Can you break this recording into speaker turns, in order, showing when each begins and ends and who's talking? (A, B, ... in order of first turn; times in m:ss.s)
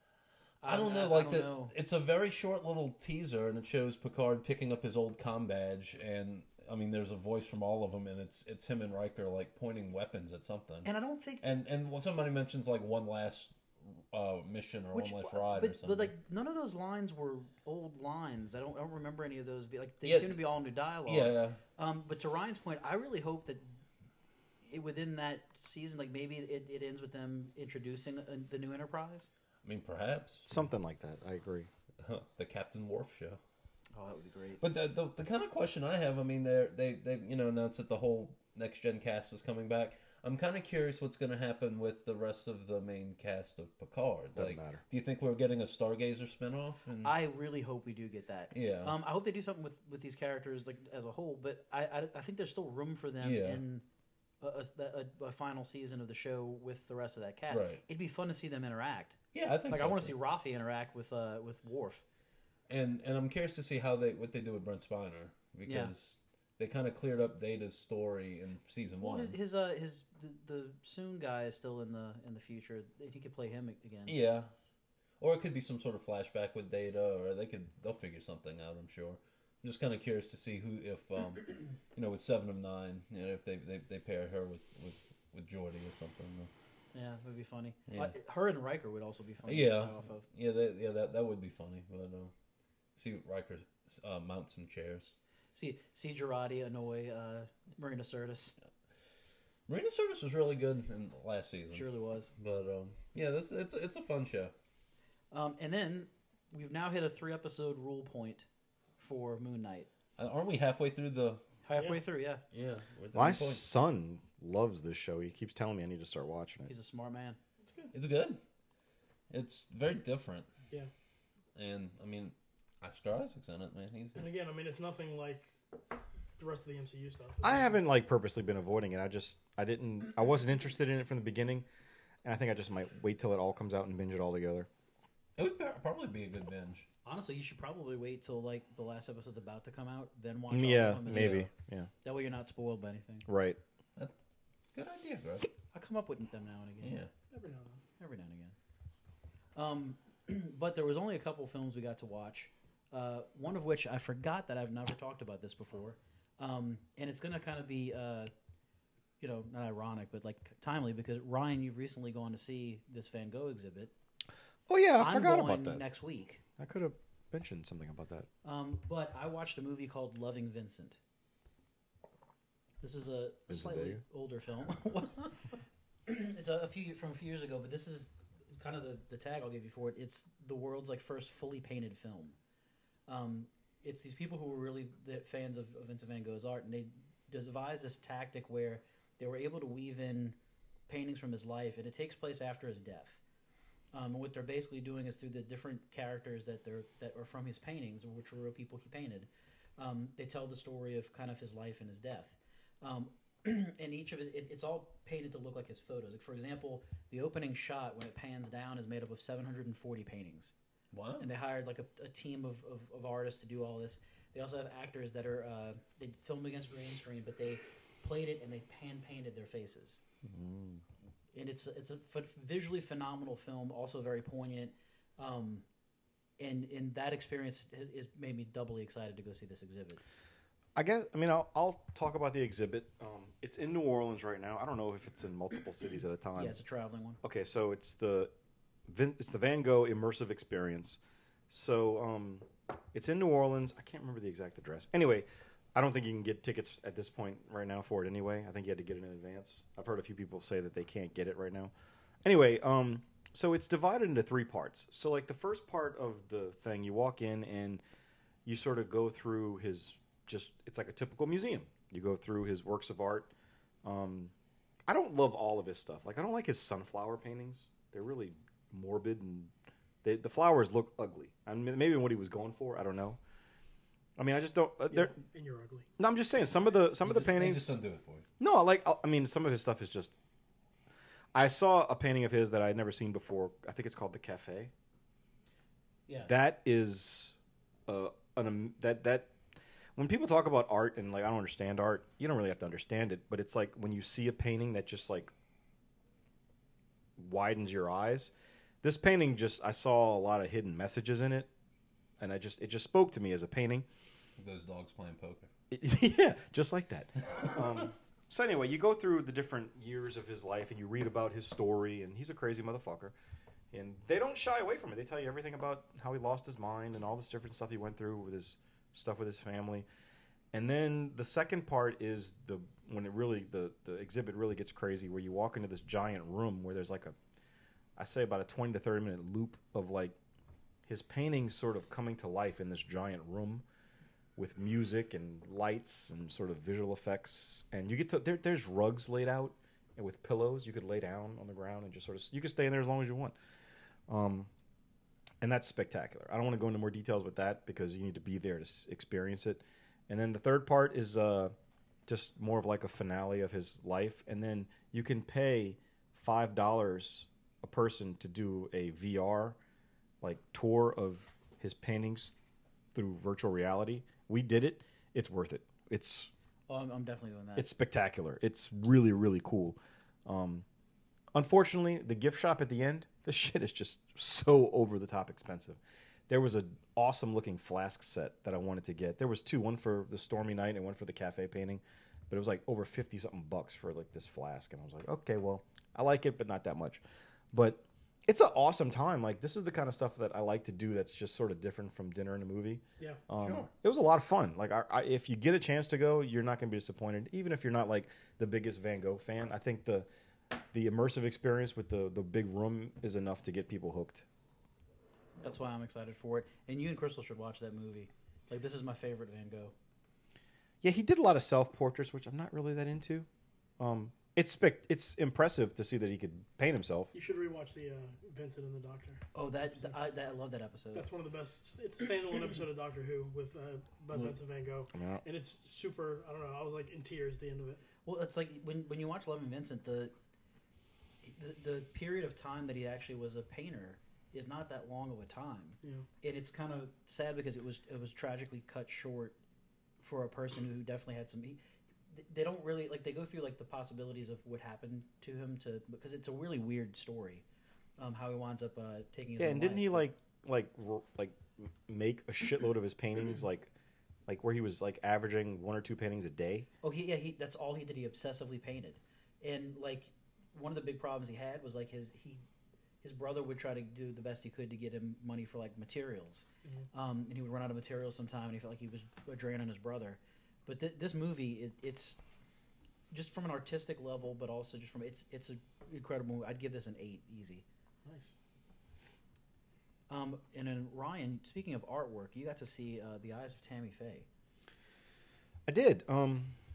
0:00.6-0:01.7 A
0:00.6-0:10.9 B
0:10.8-0:11.4 A
0:11.4-0:16.1 B
0:14.9-0:23.8 A
0:20.0-0:20.4 B
0:21.0-0:21.6 B
0:24.6-0:29.3 A
0:29.6-0:30.5 B
0:30.5-0:31.7 C
0:32.0-0:33.4 B
0:33.9-0:34.6 A
0:34.6-0:47.2 B
0:44.4-0:44.8 C
0:47.0-0:53.8 A
0:48.5-0:49.0 B
0:53.2-0:53.6 B
0:54.4-1:02.0 A
0:57.5-0:57.8 B
0:59.3-1:00.1 B
1:02.7-1:09.4 B
1:05.6-1:05.9 A
1:09.0-1:14.2 A
1:14.1-1:14.5 B
1:15.2-1:26.5 B
1:26.9-1:30.2 A
1:27.9-1:28.1 B
1:29.4-1:32.3 B
1:33.0-1:35.1 B
1:35.5-1:38.6 A
1:39.7-1:44.5 B
1:41.7-1:42.3 A
1:45.3-1:48.5 A
1:49.0-1:49.9 A
1:50.2-1:51.4 B
1:51.6-1:52.4 A
1:51.7-1:52.0 D
1:52.5-1:53.6 B
1:53.1-1:56.7 C
1:56.7-1:57.4 A
1:57.9-1:58.4 B
1:59.3-2:00.5 B
2:01.5-2:04.2 B
2:04.2-2:05.5 D
2:06.4-2:07.8 D
2:07.4-2:11.6 C
2:12.2-2:14.7 C
2:15.4-2:16.8 B
2:17.0-2:21.5 A
2:20.5-2:21.9 C
2:21.1-2:21.4 B
2:22.0-2:23.3 A
2:23.3-2:23.6 C
2:24.7-2:25.5 B
2:25.7-2:27.0 A
2:26.8-2:27.1 B
2:27.3-2:27.8 D
2:28.0-2:28.5 A
2:29.5-2:38.3 A
2:39.2-2:43.9 A
2:44.7-2:45.8 C
2:45.0-2:46.4 A
2:46.6-2:48.3 C
2:48.4-2:51.0 A
2:52.8-2:55.4 A
2:53.5-2:54.0 C
2:56.1-3:02.4 A
3:03.1-3:10.4 A
3:10.9-3:13.2 A
3:13.9-3:30.5 A
3:30.9-3:31.3 B
3:31.2-3:40.0 A
3:40.2-3:40.8 C
3:41.3-3:45.6 A
3:46.4-3:50.0 A
3:50.8-3:56.6 C
3:56.4-3:57.2 A
3:57.2-3:58.3 C
3:58.9-4:11.7 C
4:12.2-4:17.8 C
4:18.4-4:23.3 C
4:23.8-4:24.3 C
4:24.9-4:29.5 C
4:30.0-4:33.2 C
4:34.2-4:35.2 C
4:34.9-4:35.9 D
4:36.0-4:37.8 C
4:37.0-4:38.2 B
4:38.4-4:40.2 C
4:41.3-4:44.7 C
4:46.1-4:46.3 A
4:46.2-4:49.4 C
4:50.0-4:55.3 C
4:57.2-5:01.5 C
5:02.2-5:03.8 C
5:04.4-5:05.5 B
5:05.7-5:13.1 C
5:13.7-5:19.8 C
5:20.5-5:27.1 C
5:28.0-5:30.2 C
5:30.8-5:33.6 C
5:34.4-5:43.3 C
5:44.1-5:44.5 C
5:45.4-5:51.5 C
5:52.1-5:59.6 C
6:00.2-6:02.3 C
6:02.9-6:06.3 C
6:06.7-6:07.7 A
6:07.6-6:10.6 C
6:11.3-6:27.0 C
6:27.5-6:40.1 C
6:33.4-6:33.7 B
6:40.7-6:44.2 C
6:45.4-6:49.7 A
6:50.8-6:53.3 C
6:53.8-6:57.1 C
6:57.1-6:59.2 D
6:59.3-7:01.1 A
7:00.9-7:07.8 D
7:04.9-7:05.2 C
7:08.0-7:10.1 A
7:11.2-7:19.3 A
7:15.8-7:16.1 D
7:20.0-7:27.4 A
7:28.0-7:30.1 A
7:29.4-7:33.7 C
7:34.3-7:36.7 C
7:36.8-7:42.4 A
7:43.0-7:52.2 A
7:53.1-7:57.6 A
7:58.0-7:58.3 D
8:00.1-8:04.2 A
8:05.7-8:06.6 C